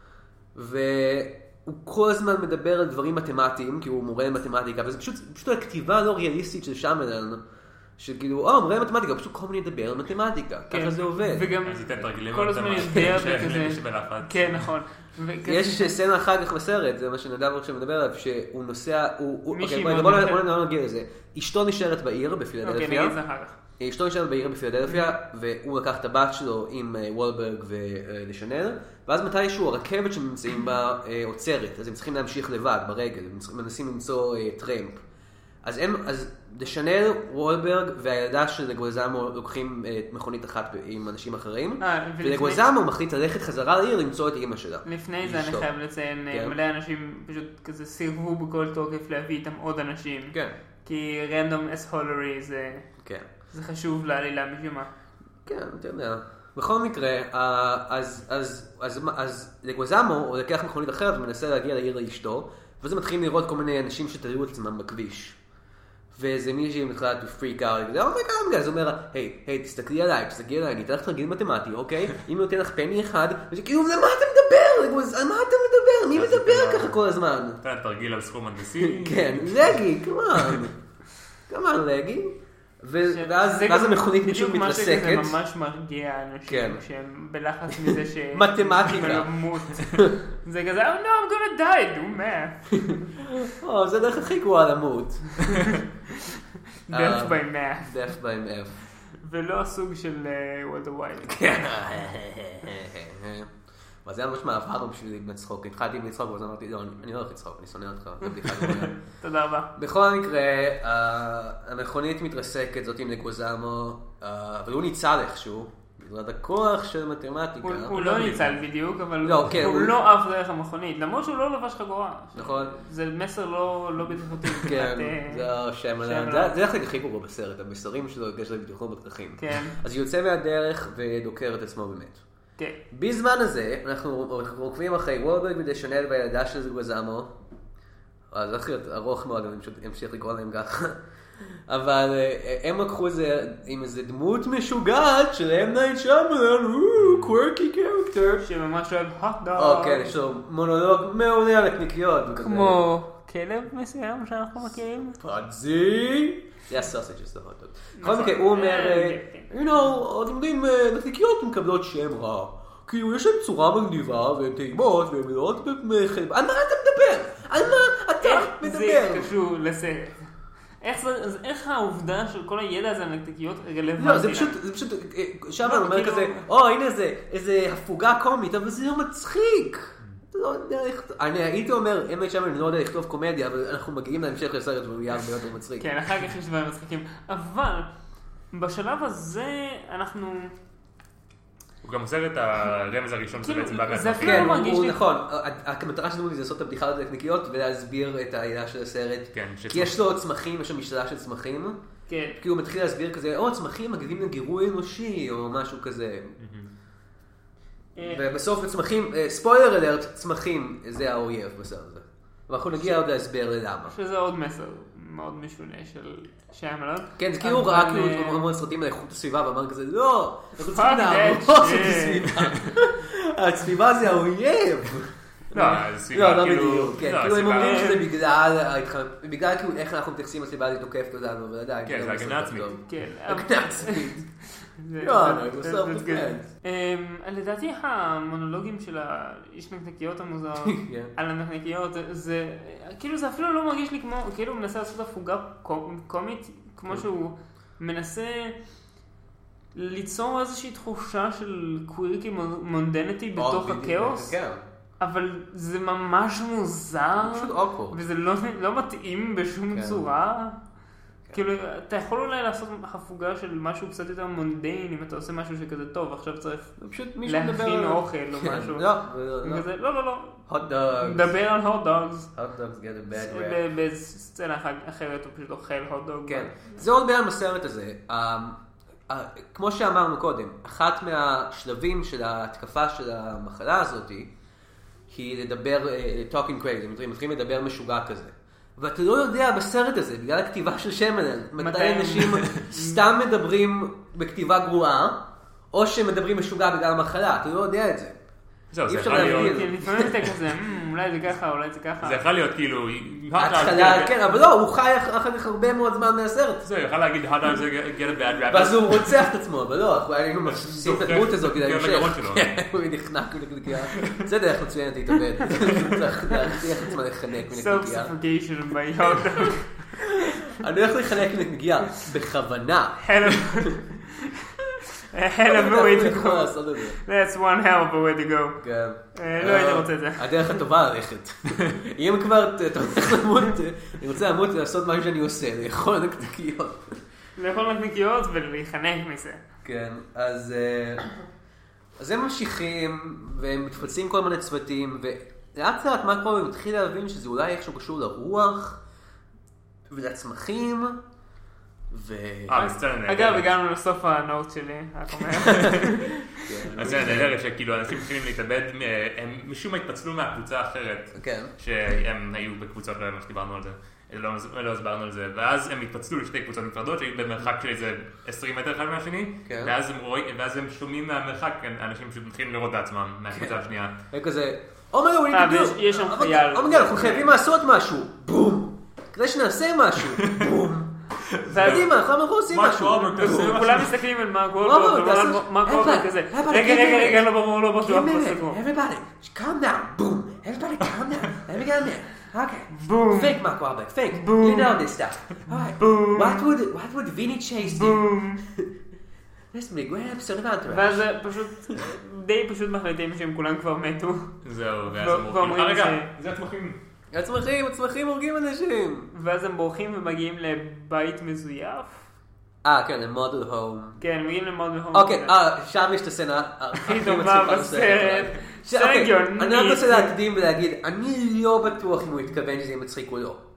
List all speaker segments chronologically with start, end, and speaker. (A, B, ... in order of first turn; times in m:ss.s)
0:00.5-0:07.4 A
0:08.0-0:11.5 A
0:10.7-0:15.9 B
0:11.6-0:14.7 C
0:15.4-0:23.2 A
0:19.5-0:20.4 B
0:22.6-0:23.6 B
0:23.8-0:35.0 A
0:35.6-0:45.7 A
0:41.8-0:42.6 B
0:44.8-0:52.8 B
0:46.3-0:46.6 A
0:53.0-0:53.2 A
0:53.5-0:54.9 B
0:55.4-1:05.4 A
1:06.1-1:17.6 A
1:16.1-1:17.0 C
1:17.6-1:19.7 C
1:18.8-1:20.8 A
1:21.5-1:25.4 A
1:23.1-1:33.1 B
1:26.5-1:26.8 A
1:27.9-1:30.1 A
1:32.9-1:35.8 A
1:36.9-1:38.0 B
1:36.9-1:38.8 A
1:39.1-1:41.6 B
1:41.2-1:43.5 A
1:44.0-1:49.0 A
1:49.2-1:49.7 B
1:49.8-1:57.9 A
1:57.6-2:05.5 B
1:57.9-1:58.5 C
1:59.2-2:00.0 A
2:02.3-2:02.7 A
2:04.6-2:12.2 A
2:06.0-2:06.6 B
2:09.4-2:09.8 B
2:12.9-2:17.3 A
2:18.3-2:21.0 A
2:21.7-2:28.4 A
2:27.0-2:27.3 C
2:28.4-2:30.1 B
2:29.6-2:32.8 A
2:32.4-2:35.2 B
2:35.2-2:49.3 A
2:38.0-2:39.5 B
2:48.2-2:50.3 B
2:50.8-2:54.6 B
2:54.0-3:05.9 A
2:55.6-2:56.4 B
3:05.8-3:07.9 B
3:08.5-3:10.5 B
3:11.8-3:14.6 C
3:13.4-3:15.0 B
3:14.2-3:21.8 A
3:19.3-3:20.0 C
3:22.1-3:22.4 B
3:22.4-3:26.4 A
3:26.4-3:26.7 C
3:28.0-3:28.2 B
3:28.0-3:33.9 A
3:33.9-3:38.4 B
3:37.2-3:54.3 A
3:40.6-3:42.3 B
3:42.4-3:42.6 C
3:45.5-3:45.8 B
3:45.5-3:47.9 C
3:47.5-3:48.0 B
3:51.8-3:52.8 C
3:52.8-4:08.6 B
3:55.0-3:56.5 A
4:00.6-4:01.1 A
4:09.7-4:14.4 B
4:13.4-4:14.6 A
4:15.0-4:20.6 B
4:17.2-4:18.0 A
4:19.7-4:20.0 A
4:21.3-4:28.9 B
4:26.8-4:29.6 A
4:29.4-4:32.3 B
4:30.5-4:31.3 A
4:32.3-4:33.6 A
4:33.1-4:36.8 B
4:36.3-4:44.3 A
4:45.1-4:58.2 A
4:51.6-4:53.0 B
4:58.7-4:59.7 C
4:58.9-5:00.3 A
4:59.1-5:02.2 B
5:02.0-5:04.2 C
5:03.4-5:06.6 A
5:06.6-5:09.1 C
5:08.5-5:18.1 A
5:10.5-5:12.6 C
5:14.0-5:14.2 C
5:17.5-5:20.0 B
5:20.0-5:23.8 A
5:23.0-5:28.6 B
5:25.4-5:27.0 A
5:28.6-5:37.0 A
5:29.1-5:30.6 B
5:37.4-5:39.4 B
5:39.6-5:41.0 A
5:42.0-5:48.8 A
5:49.9-5:51.0 A
5:51.9-5:52.7 A
5:52.5-5:53.5 C
5:52.5-5:57.0 B
5:55.5-5:55.8 C
5:56.4-5:57.3 A
5:56.7-6:13.9 C
6:01.1-6:01.5 A
6:09.4-6:09.7 A
6:13.3-6:13.6 A
6:14.1-6:20.9 A
6:15.3-6:17.3 B
6:21.3-6:21.9 C
6:21.5-6:21.9 B
6:21.5-6:23.7 A
6:22.5-6:23.9 C
6:23.1-6:28.6 B
6:24.6-6:38.7 A
6:32.7-6:33.4 B
6:34.1-6:34.8 B
6:35.6-6:36.5 B
6:37.6-6:38.4 B
6:39.5-6:41.0 A
6:40.7-6:44.3 B
6:44.4-6:46.8 C
6:44.9-6:46.1 B
6:47.1-6:49.1 A
6:49.1-6:52.0 B
6:52.6-6:54.0 A
6:54.0-6:55.3 B
6:54.9-7:03.4 A
6:56.7-7:00.1 B